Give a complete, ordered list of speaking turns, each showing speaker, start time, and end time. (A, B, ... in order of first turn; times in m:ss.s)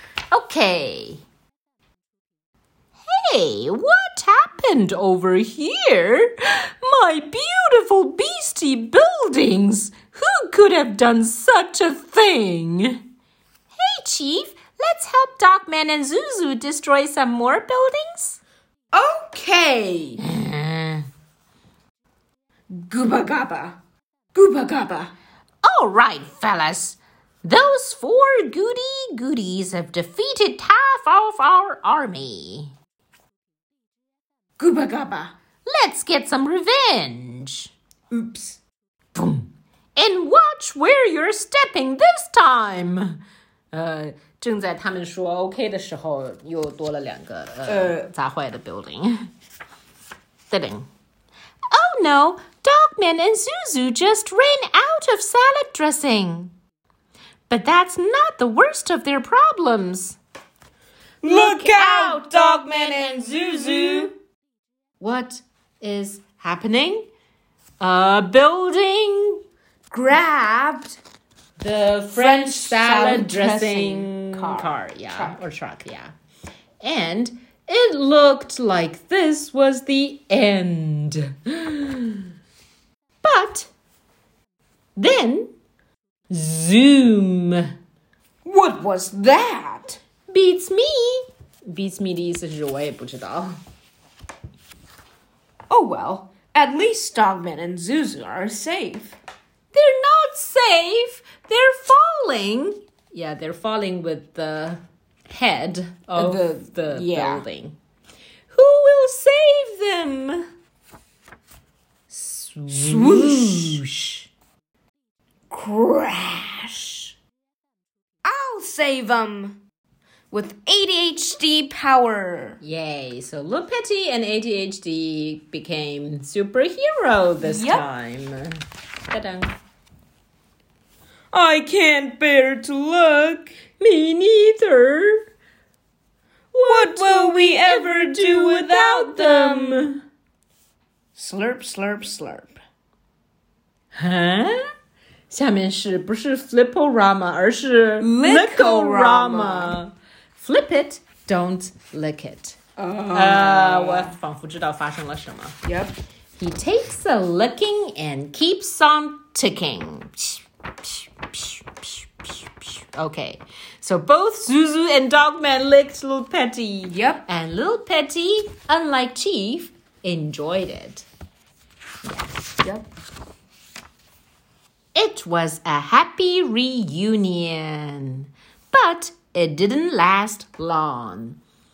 0:00.3-0:01.2 A
0:03.1-0:13.0 A
0:13.7-0:18.4 A
0:18.9-0:20.2 B
0:20.2-0:21.1 A
0:22.7-0:23.8 B
0:24.3-0:25.1 B
0:25.6-0:32.7 A
0:34.6-0:35.3 B
0:35.7-0:37.7 A
0:38.1-0:38.6 B
0:39.2-0:43.2 A
0:43.7-0:49.2 A
0:47.7-0:48.1 B
0:50.5-0:50.9 A
0:51.7-0:56.5 A
0:57.5-1:00.2 A
1:01.2-1:04.1 B
1:01.2-1:04.1 A
1:05.0-1:07.1 A
1:07.8-1:09.4 A
1:09.9-1:11.0 B
1:11.6-1:16.1 A
1:12.1-1:15.4 B
1:16.8-1:22.3 A
1:23.2-1:23.7 A
1:25.0-1:25.5 A
1:26.3-1:27.7 A
1:28.4-1:30.0 B
1:30.3-1:33.6 A
1:35.7-1:39.2 B
1:39.7-1:47.8 A
1:46.2-1:47.4 B
1:48.5-1:50.5 A
1:52.1-1:54.3 A
1:52.7-1:53.8 B
1:55.5-1:57.1 B
1:58.2-1:59.6 B
2:00.3-2:02.6 B
2:02.6-2:09.5 A
2:07.4-2:07.8 B
2:11.3-2:13.5 B
2:13.8-2:15.2 A
2:16.5-2:20.0 A
2:16.7-2:19.9 B
2:21.2-2:22.6 B
2:23.9-2:24.6 A
2:25.3-2:32.6 A
2:28.0-2:29.8 B
2:32.8-2:34.1 B
2:33.1-2:35.6 A
2:35.6-2:36.0 B
2:36.4-2:51.1 A
2:46.9-2:47.2 B
2:52.0-2:52.4 A
2:54.9-3:01.4 A